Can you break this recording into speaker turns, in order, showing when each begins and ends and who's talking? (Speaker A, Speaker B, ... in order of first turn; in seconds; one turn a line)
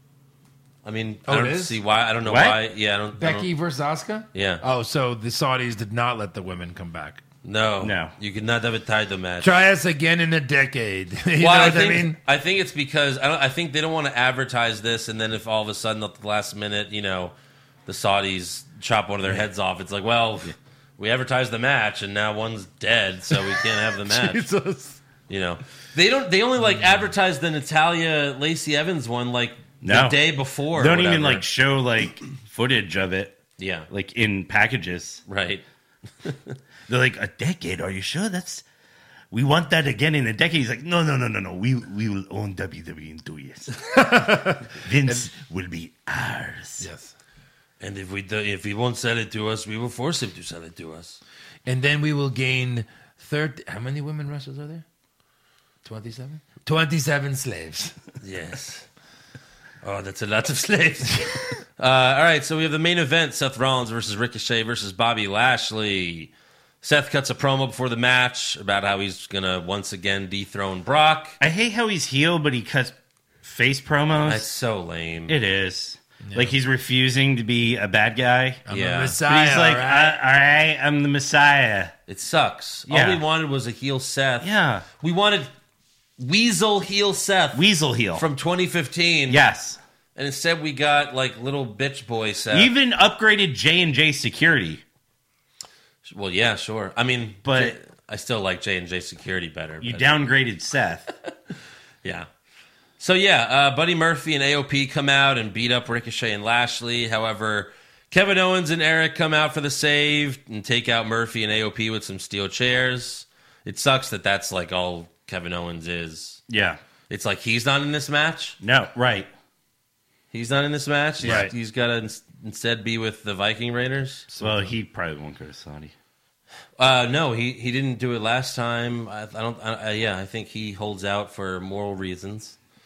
Speaker A: 0.8-3.5
Speaker B: 1.3-1.8
Speaker C: 2.2-2.6
Speaker B: 3.1-7.2
Speaker A: 4.3-4.6
Speaker A: 7.4-9.6
Speaker C: 7.8-8.1
Speaker B: 9.4-12.2
Speaker A: 11.4-17.3
Speaker A: 17.9-24.5
Speaker B: 24.1-25.0
Speaker A: 25.3-31.4
Speaker C: 29.8-30.2
Speaker C: 30.7-33.4
Speaker A: 33.6-33.9
Speaker C: 33.9-35.2
Speaker A: 35.3-35.6
Speaker A: 36.2-36.6
Speaker C: 36.9-38.6
Speaker C: 39.3-44.1
Speaker B: 43.9-45.3
Speaker C: 44.7-46.9
Speaker B: 46.8-47.1
Speaker A: 47.8-51.2
Speaker B: 51.6-54.9
Speaker B: 55.9-58.0
Speaker A: 58.2-58.9
Speaker A: 59.8-71.4
Speaker C: 71.4-74.5
Speaker A: 74.2-75.4
Speaker C: 75.3-78.7
Speaker B: 76.2-76.6
Speaker B: 78.7-80.2
Speaker A: 78.7-79.2
Speaker C: 79.2-81.9
Speaker A: 82.1-85.5
Speaker C: 82.9-83.2
Speaker C: 84.4-84.9
Speaker A: 86.2-89.4
Speaker C: 87.5-88.2
Speaker C: 89.3-89.8
Speaker A: 90.2-92.7
Speaker C: 92.5-94.8
Speaker A: 96.1-100.2
Speaker C: 97.4-97.8
Speaker C: 99.8-101.1
Speaker A: 103.0-116.4
Speaker C: 116.5-116.8
Speaker A: 117.1-118.6
Speaker C: 118.6-119.3
Speaker A: 120.3-124.3
Speaker C: 121.2-121.5
Speaker B: 121.2-121.5
Speaker B: 124.3-124.7
Speaker C: 124.3-125.9
Speaker A: 126.8-132.6